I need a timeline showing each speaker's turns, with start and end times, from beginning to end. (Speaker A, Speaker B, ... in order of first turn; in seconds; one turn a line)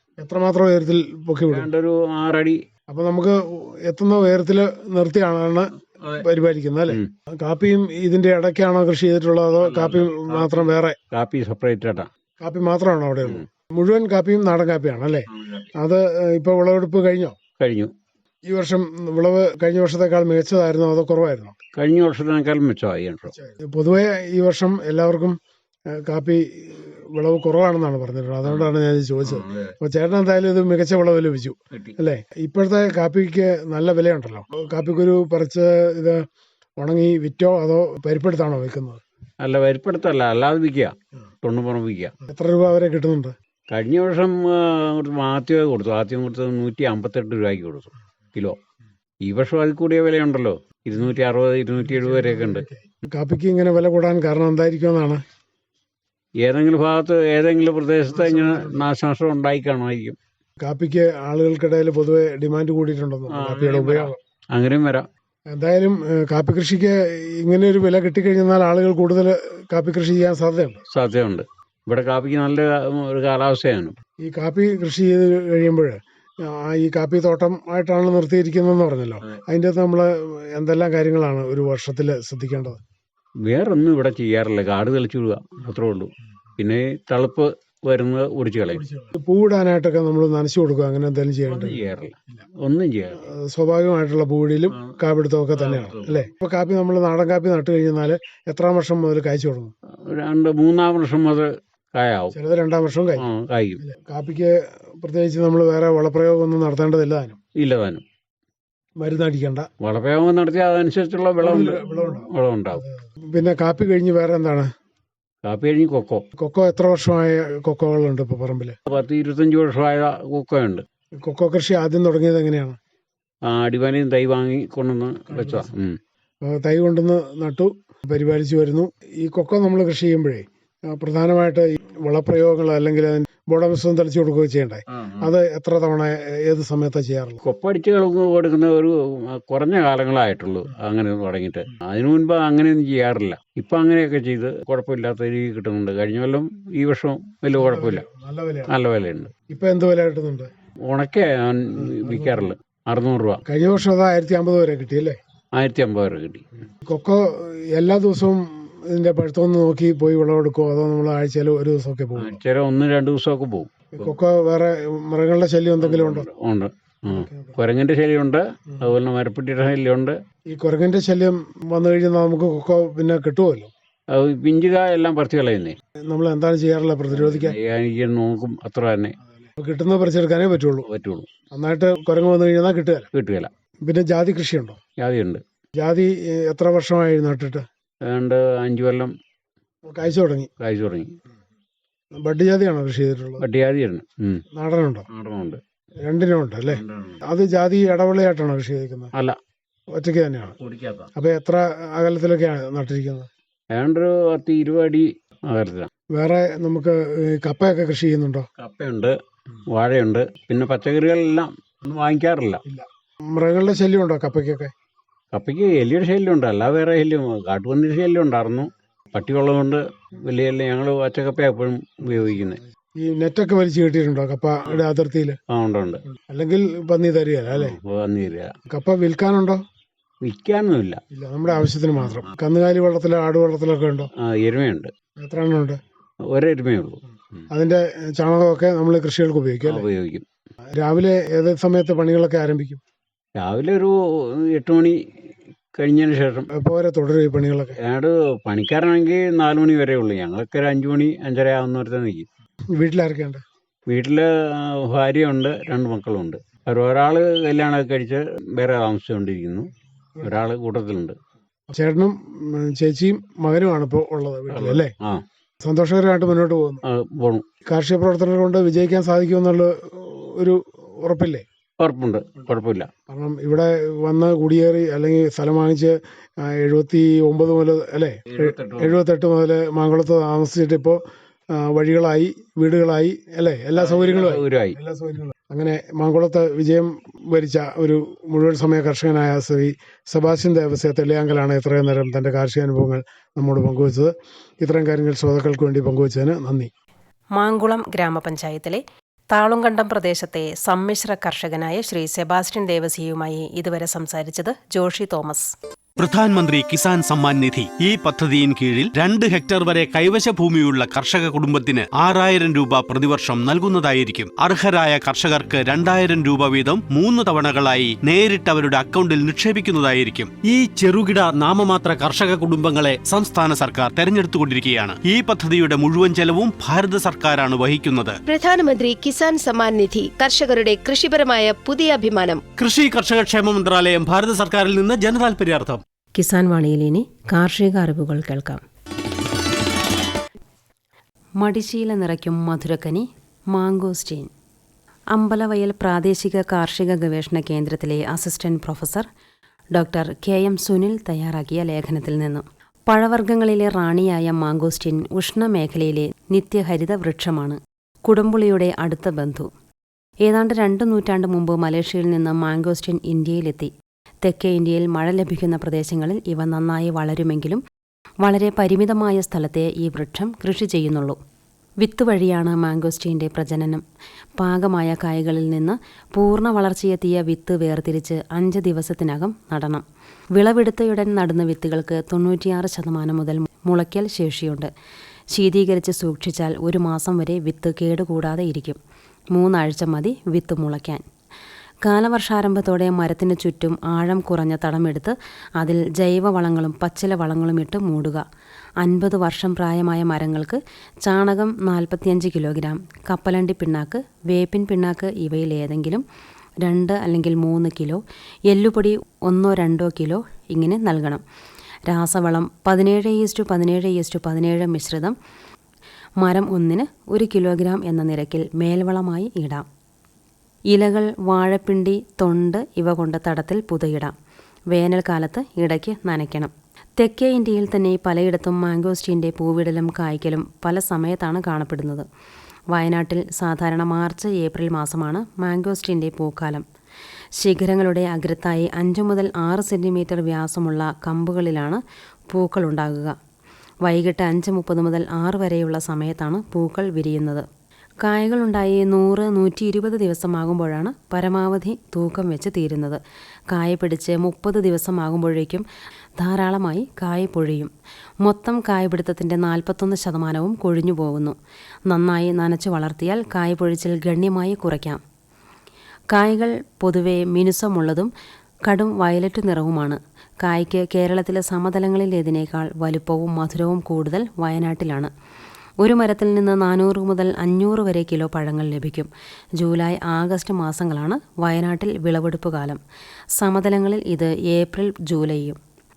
Speaker A: 0.2-1.7
Speaker B: 1.5-2.6
Speaker A: 2.9-11.0
Speaker B: 9.6-12.1
Speaker A: 12.4-17.4
Speaker B: 15.3-15.7
Speaker B: 17.6-17.9
Speaker A: 18.5-21.6
Speaker B: 21.8-23.3
Speaker A: 23.3-25.4
Speaker A: 25.9-36.3
Speaker B: 29.2-29.8
Speaker A: 36.8-39.0
Speaker B: 39.4-42.1
Speaker A: 42.2-43.4
Speaker B: 43.7-48.6
Speaker B: 49.2-52.7
Speaker A: 51.9-55.2
Speaker B: 56.4-60.2
Speaker A: 58.1-58.8
Speaker A: 60.6-64.2
Speaker B: 63.3-65.1
Speaker A: 65.5-70.8
Speaker B: 70.9-74.0
Speaker A: 74.2-82.8
Speaker B: 83.5-88.8
Speaker A: 88.8-91.8
Speaker B: 91.5-93.2
Speaker A: 93.2-99.7
Speaker B: 95.5-96.3
Speaker B: 100.0-102.3
Speaker A: 102.3-103.3
Speaker B: 103.2-103.8
Speaker A: 103.8-107.4
Speaker B: 107.6-108.0
Speaker A: 109.0-109.7
Speaker B: 109.8-112.8
Speaker A: 111.4-114.7
Speaker B: 115.5-116.2
Speaker A: 116.4-118.8
Speaker B: 118.9-120.8
Speaker A: 121.2-122.8
Speaker B: 123.5-126.0
Speaker A: 125.3-125.7
Speaker A: 126.4-137.4
Speaker B: 134.9-135.3
Speaker B: 137.4-148.0
Speaker A: 147.6-148.7
Speaker B: 148.7-149.3
Speaker A: 149.5-150.5
Speaker B: 150.9-153.4
Speaker A: 151.8-152.5
Speaker A: 153.5-155.2
Speaker B: 155.6-156.5
Speaker A: 156.8-162.4
Speaker B: 162.2-164.1
Speaker A: 164.0-166.3
Speaker B: 165.8-170.2
Speaker A: 167.1-167.6
Speaker A: 170.5-173.7
Speaker B: 174.1-175.8
Speaker A: 176.1-177.6
Speaker B: 177.1-179.2
Speaker A: 179.5-180.9
Speaker B: 180.9-181.3
Speaker A: 181.5-183.1
Speaker B: 183.1-183.5
Speaker A: 183.8-184.8
Speaker B: 185.0-185.4
Speaker A: 185.8-187.7
Speaker B: 188.1-189.1
Speaker A: 189.9-190.5
Speaker B: 190.6-191.1
Speaker A: 192.2-193.4
Speaker B: 193.4-194.4
Speaker A: 194.6-195.1
Speaker B: 195.1-195.6
Speaker A: 196.0-199.1
Speaker B: 196.7-197.2
Speaker A: 199.9-200.6
Speaker B: 200.6-201.1
Speaker A: 201.2-203.3
Speaker B: 203.7-205.9
Speaker A: 206.1-208.5
Speaker B: 208.6-209.2
Speaker B: 209.7-212.6
Speaker A: 212.7-214.7
Speaker B: 215.3-222.6
Speaker A: 223.0-225.4
Speaker B: 225.5-226.0
Speaker A: 226.2-227.8
Speaker B: 227.5-228.5
Speaker A: 228.7-229.6
Speaker B: 230.2-231.0
Speaker A: 231.1-234.1
Speaker B: 234.2-234.9
Speaker A: 235.2-235.8
Speaker B: 236.3-237.5
Speaker A: 237.5-239.9
Speaker B: 239.7-240.2
Speaker A: 240.8-242.8
Speaker B: 243.4-245.0
Speaker B: 245.8-246.5
Speaker A: 246.6-247.8
Speaker B: 247.8-252.3
Speaker A: 252.8-253.4
Speaker B: 253.9-259.7
Speaker B: 260.2-261.2
Speaker A: 261.7-264.9
Speaker B: 264.5-265.2
Speaker A: 265.6-266.8
Speaker B: 266.9-267.4
Speaker A: 267.7-271.4
Speaker B: 271.8-272.9
Speaker A: 273.1-281.0
Speaker B: 278.3-279.0
Speaker A: 281.5-296.7
Speaker B: 283.8-284.8
Speaker C: 297.4-305.5
Speaker D: 306.0-328.2
Speaker E: 328.3-332.4
Speaker D: 332.6-335.8
Speaker C: 336.2-338.6
Speaker C: 341.4-344.3
Speaker C: 345.1-349.1
Speaker C: 349.8-359.5
Speaker C: 360.2-363.7
Speaker C: 364.2-367.6
Speaker C: 368.2-371.2
Speaker C: 371.8-373.8
Speaker C: 374.4-379.8
Speaker C: 380.4-384.7
Speaker C: 385.3-388.8
Speaker C: 389.4-391.0
Speaker C: 391.9-398.2
Speaker C: 398.8-406.1
Speaker C: 406.6-411.2
Speaker C: 411.9-415.2
Speaker C: 416.2-419.6
Speaker C: 420.7-424.1
Speaker C: 424.7-432.1
Speaker C: 432.7-436.6
Speaker C: 437.4-441.8
Speaker C: 442.3-443.1
Speaker C: 443.9-447.5
Speaker C: 448.0-453.0
Speaker C: 453.5-455.6
Speaker C: 456.2-457.7
Speaker C: 458.2-461.4
Speaker C: 461.9-465.0
Speaker C: 466.1-468.1
Speaker C: 468.7-475.1
Speaker C: 475.8-482.8
Speaker C: 483.4-485.6